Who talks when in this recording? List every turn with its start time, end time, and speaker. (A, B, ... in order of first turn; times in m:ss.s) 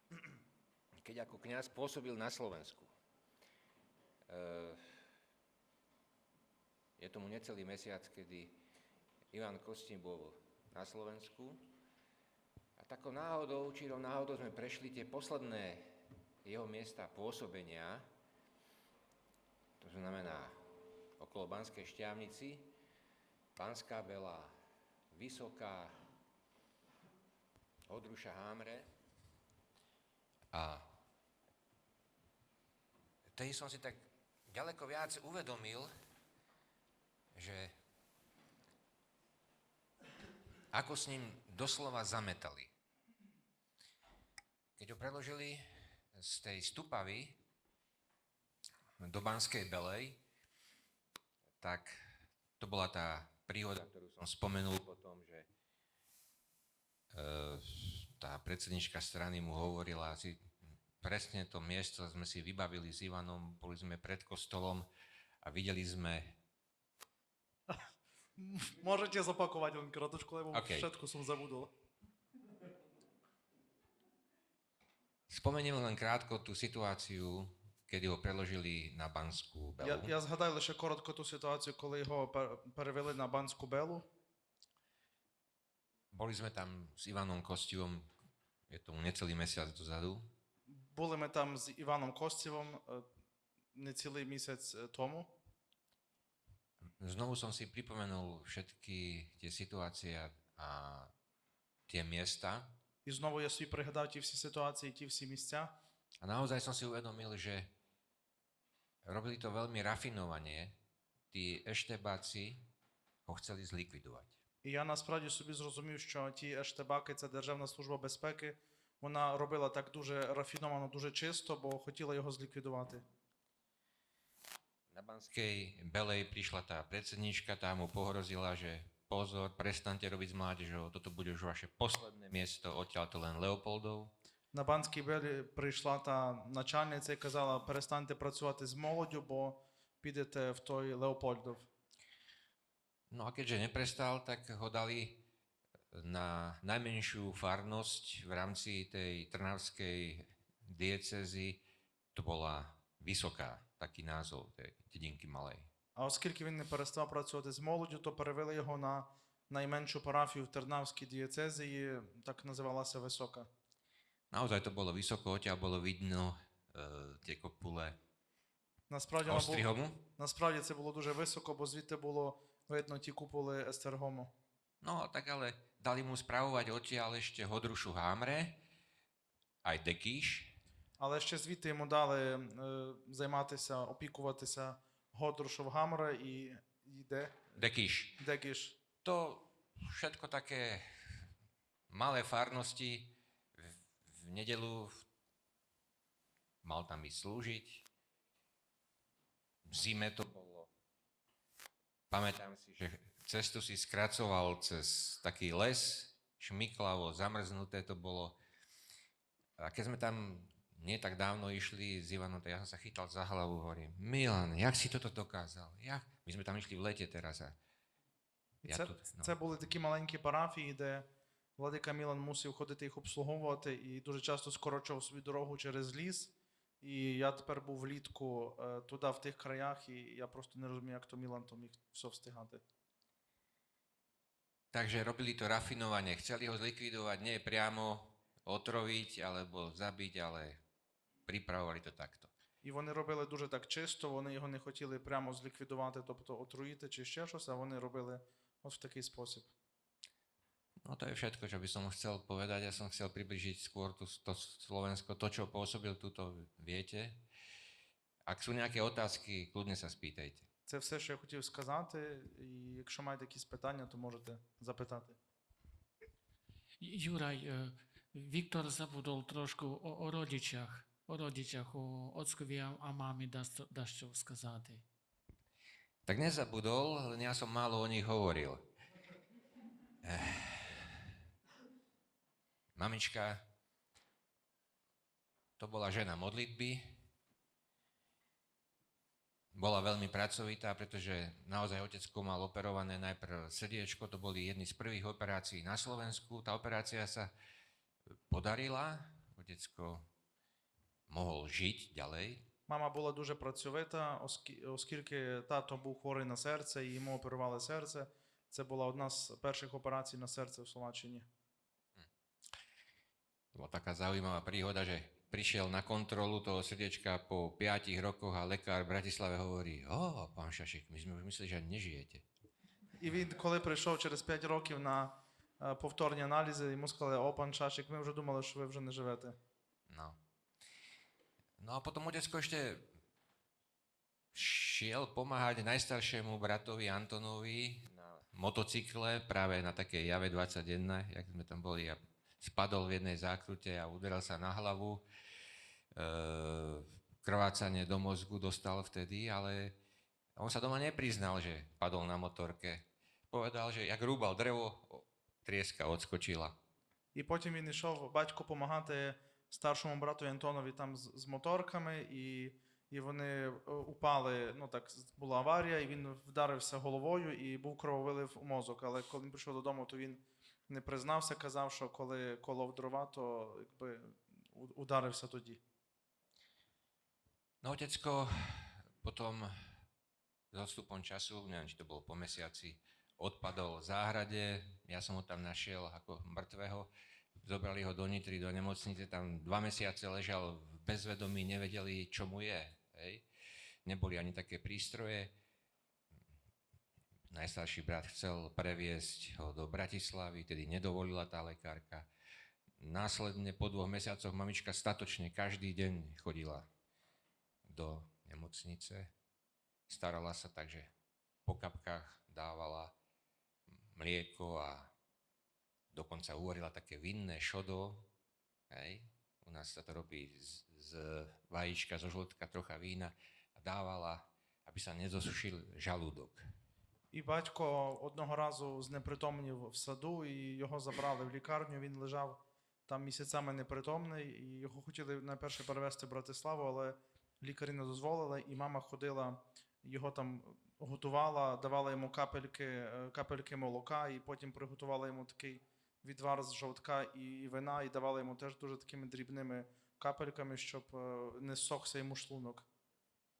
0:01.0-0:02.9 A
0:04.3-0:04.9 A
0:07.0-0:08.6 A
0:09.3-0:11.6 A
0:12.8-0:18.0 A
0:19.8-0:20.6 A
0:21.2-0:22.7 A
0:23.6-0:24.5 A
0:25.1-0:25.9 A
0:27.9-0:28.8 A
0:30.5-0:30.8 A
0:33.3-0:35.9 A
0:37.3-0:37.7 A
0:40.7-0:42.7 A
0:44.8-0:45.6 A
0:46.1-0:47.4 A
0:49.0-0:50.2 A
0:51.6-0:51.9 A
0:52.6-0:55.5 A
0:57.1-1:00.5 A
1:01.0-1:04.9 A
1:05.4-1:06.4 A
1:08.4-1:11.7 B
1:10.5-1:10.9 A
1:15.3-1:20.1 A
1:19.8-1:24.0 B
1:26.1-1:28.1 A
1:28.7-1:30.3 A
1:30.7-1:33.1 B
1:33.7-1:35.3 B
1:37.0-1:41.1 A
1:41.9-1:42.7 A
1:43.0-1:45.7 B
1:46.2-1:47.7 A
1:49.0-1:50.8 A
1:51.3-1:52.6 A
1:53.2-1:54.3 A
1:54.6-2:03.0 B
2:04.9-2:14.1 A
2:14.5-2:21.7 B
2:23.1-2:25.2 A
2:25.9-2:31.6 A
2:32.1-2:35.7 A
2:36.0-2:43.5 B
2:44.3-2:48.0 A
2:48.9-2:54.3 B
2:49.2-2:50.0 A
2:54.8-2:58.6 A
2:59.6-3:00.5 A
3:01.0-3:07.5 B
3:07.6-3:08.2 A
3:08.2-3:08.8 B
3:09.0-3:11.2 A
3:11.9-3:15.1 A
3:16.6-3:17.8 A
3:19.6-3:20.7 A
3:22.1-3:28.4 A
3:29.6-3:37.6 A
3:38.6-3:39.3 A
3:38.6-3:52.6 B
3:54.7-4:00.6 A
4:01.3-4:02.3 A
4:02.6-4:09.5 B
4:10.8-4:17.2 A
4:18.3-4:20.4 A
4:20.7-4:25.2 B
4:26.8-4:34.8 C
4:36.0-4:38.7 A
4:40.0-4:41.1 A
4:42.8-4:43.4 A
4:45.6-4:47.0 A
4:49.5-4:57.3 A
4:58.3-5:00.0 A
5:01.1-5:02.4 A
5:02.7-5:11.3 B
5:13.5-5:22.2 A
5:23.0-5:29.4 B
5:29.9-5:30.2 A
5:31.6-5:32.9 A
5:34.3-5:45.0 A
5:45.9-5:49.8 A
5:50.4-5:56.6 A
5:57.1-6:15.6 B
6:17.6-6:19.5 A
6:20.5-6:26.9 A
6:27.4-6:33.2 A
6:33.8-6:35.3 A
6:37.3-6:42.1 A
6:42.8-6:46.7 A
6:47.7-6:49.1 A
6:49.9-6:50.9 A
6:51.4-6:52.9 A
6:53.9-6:54.9 A
6:55.9-6:58.1 A
6:58.7-7:06.4 A
7:07.1-7:32.7 B